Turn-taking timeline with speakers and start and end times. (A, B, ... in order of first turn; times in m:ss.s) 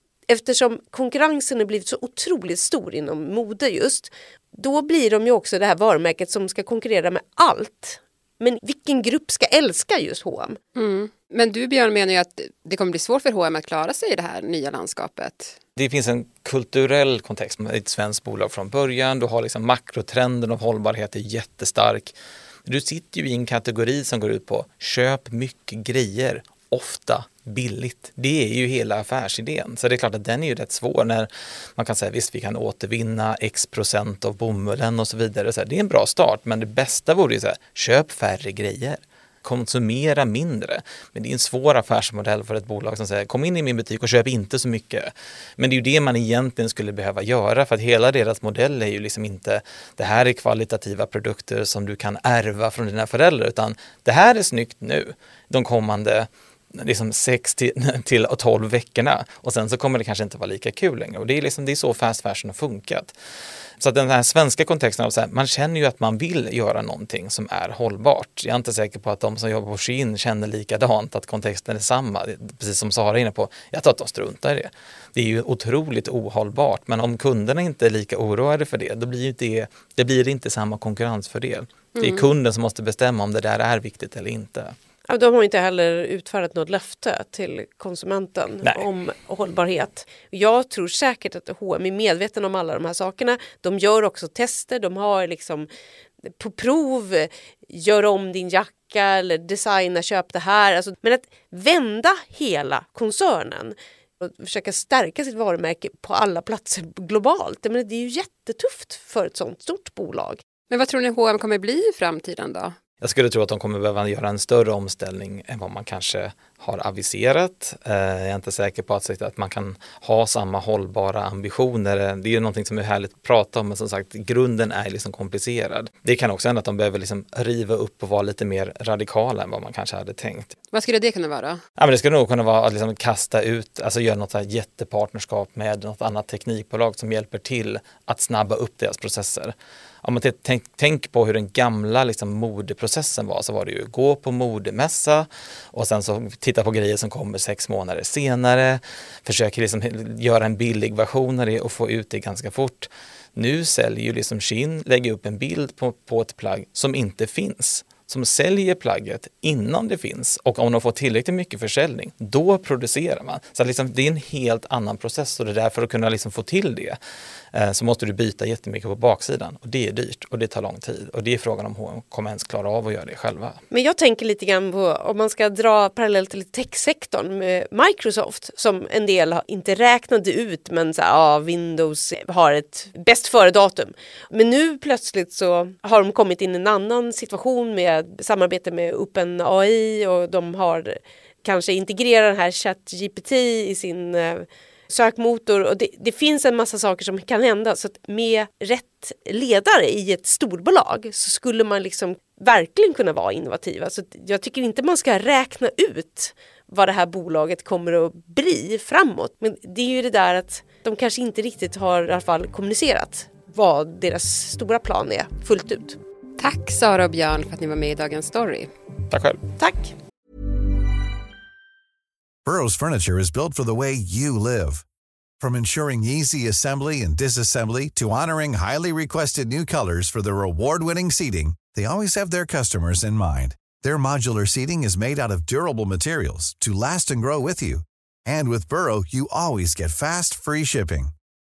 0:00.3-0:10.6 A
0:10.7-0:15.6 B
0:15.8-1:03.1 C
1:03.8-1:24.7 C
1:22.0-1:22.3 B
1:25.1-1:35.7 A
1:36.4-1:50.4 A
1:50.7-1:52.8 B
1:53.0-2:10.5 C
2:10.7-2:11.6 B
2:11.8-2:47.0 C
2:47.5-2:53.6 C
2:53.7-3:36.0 A
3:36.4-3:38.7 B
3:39.1-3:39.4 C
3:39.6-3:39.9 A
3:42.4-3:44.8 D
3:45.4-4:01.1 D